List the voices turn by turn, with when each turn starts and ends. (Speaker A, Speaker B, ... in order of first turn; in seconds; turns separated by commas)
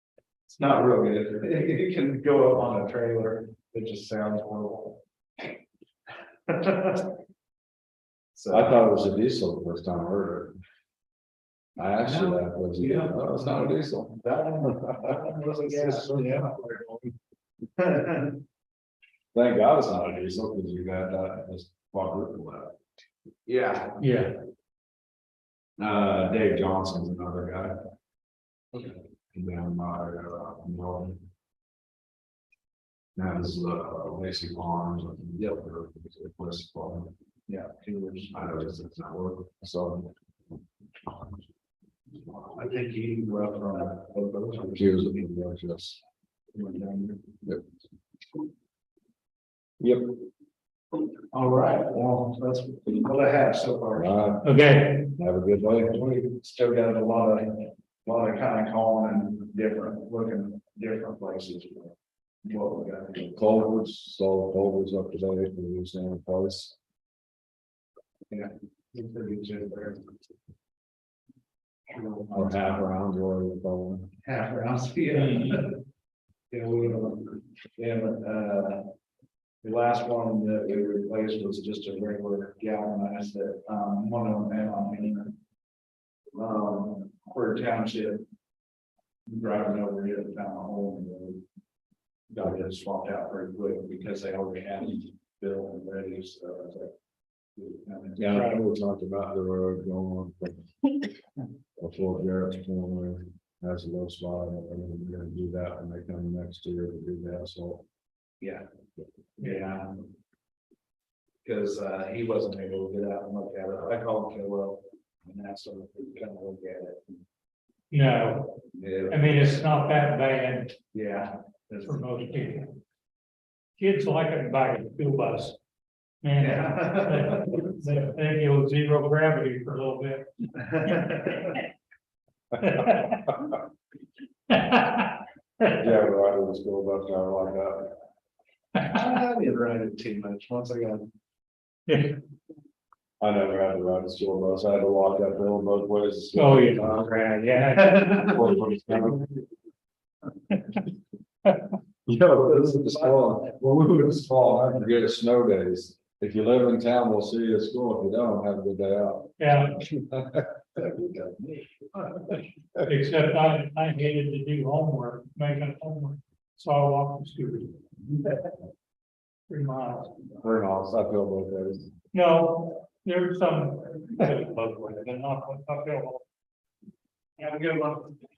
Speaker A: 0.5-5.0, Speaker A: 6.5-7.2, Speaker A: 8.3-8.9, Speaker B: 8.5-10.6, Speaker B: 11.8-17.1, Speaker A: 12.0-16.6, Speaker A: 17.8-18.4, Speaker B: 19.3-22.8, Speaker A: 23.5-24.1, Speaker C: 24.0-24.4, Speaker B: 25.8-27.8, Speaker B: 29.3-31.2, Speaker B: 33.2-37.1, Speaker A: 37.5-38.8, Speaker B: 38.3-41.4, Speaker A: 42.4-45.3, Speaker B: 44.7-46.0, Speaker A: 46.5-47.4, Speaker B: 49.8-50.2, Speaker A: 51.3-54.4, Speaker B: 54.0-54.5, Speaker C: 54.4-55.1, Speaker B: 55.1-56.0, Speaker A: 55.9-63.5, Speaker B: 63.3-66.8, Speaker A: 68.3-70.1, Speaker A: 71.9-72.8, Speaker B: 72.3-74.1, Speaker A: 74.2-75.8, Speaker C: 75.1-75.7, Speaker A: 76.5-78.9, Speaker A: 79.6-85.4, Speaker A: 86.3-88.3, Speaker A: 89.3-91.4, Speaker A: 92.3-96.9, Speaker A: 97.6-98.6, Speaker B: 98.2-100.7, Speaker B: 101.8-107.8, Speaker A: 108.4-108.7, Speaker A: 109.4-110.1, Speaker C: 109.4-109.7, Speaker A: 111.4-117.2, Speaker C: 117.9-120.8, Speaker A: 118.7-119.5, Speaker A: 120.9-122.1, Speaker C: 121.8-122.8, Speaker C: 123.8-125.6, Speaker C: 126.2-131.5, Speaker A: 126.4-128.1, Speaker A: 130.6-131.6, Speaker C: 132.6-133.5, Speaker C: 134.5-135.8, Speaker B: 135.7-138.0, Speaker A: 138.8-141.1, Speaker C: 141.9-142.2, Speaker B: 143.2-147.2, Speaker C: 146.3-148.6, Speaker A: 147.7-148.6, Speaker B: 148.1-149.2, Speaker C: 151.4-151.7, Speaker B: 152.1-160.5, Speaker A: 152.8-153.2, Speaker C: 159.4-159.8, Speaker A: 160.8-162.3, Speaker C: 162.8-167.8, Speaker C: 169.5-170.1, Speaker B: 170.4-171.9, Speaker C: 172.1-176.2, Speaker A: 177.4-178.1